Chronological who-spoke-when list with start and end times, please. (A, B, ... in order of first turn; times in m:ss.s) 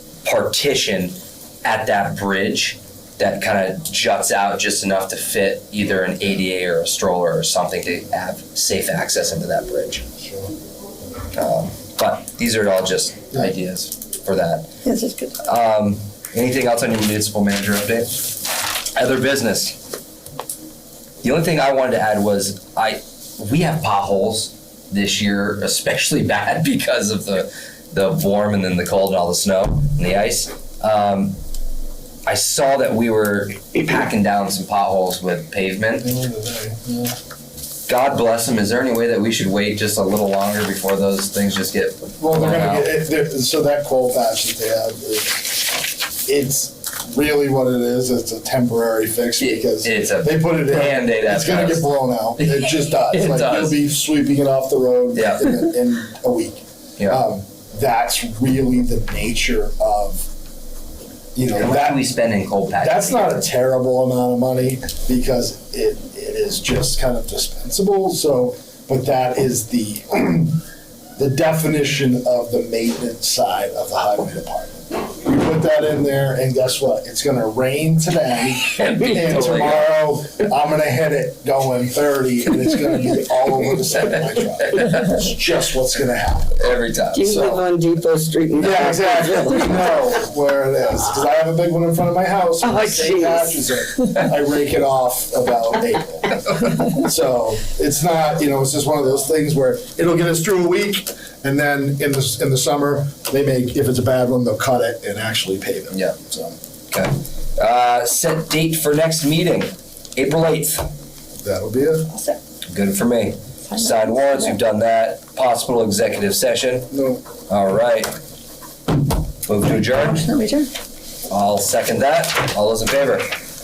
0:00.2-0:10.1 A
0:10.2-0:10.5 B
0:11.3-0:14.7 A
0:14.8-0:15.4 C
0:15.4-0:18.2 A
0:18.9-0:19.8 A
0:21.2-0:31.4 A
0:32.3-0:36.1 A
0:36.0-0:37.2 B
0:37.9-0:42.9 A
0:42.2-1:00.3 B
0:49.4-0:51.9 A
0:52.4-0:53.8 A
0:55.1-0:55.5 A
1:01.4-1:02.0 B
1:01.6-1:03.4 A
1:02.8-1:10.6 B
1:11.2-1:26.6 B
1:18.7-1:19.9 A
1:24.0-1:25.2 A
1:26.6-1:27.3 A
1:27.1-1:30.0 C
1:27.2-1:27.6 B
1:28.6-1:46.6 B
1:32.6-1:34.2 C
1:45.9-1:46.2 A
1:46.9-1:50.9 A
1:51.4-1:52.1 B
1:52.7-1:56.9 A
1:56.9-1:57.2 B
1:57.5-1:58.1 A
1:59.5-2:00.3 A
2:00.2-2:00.7 C
2:01.3-2:03.3 A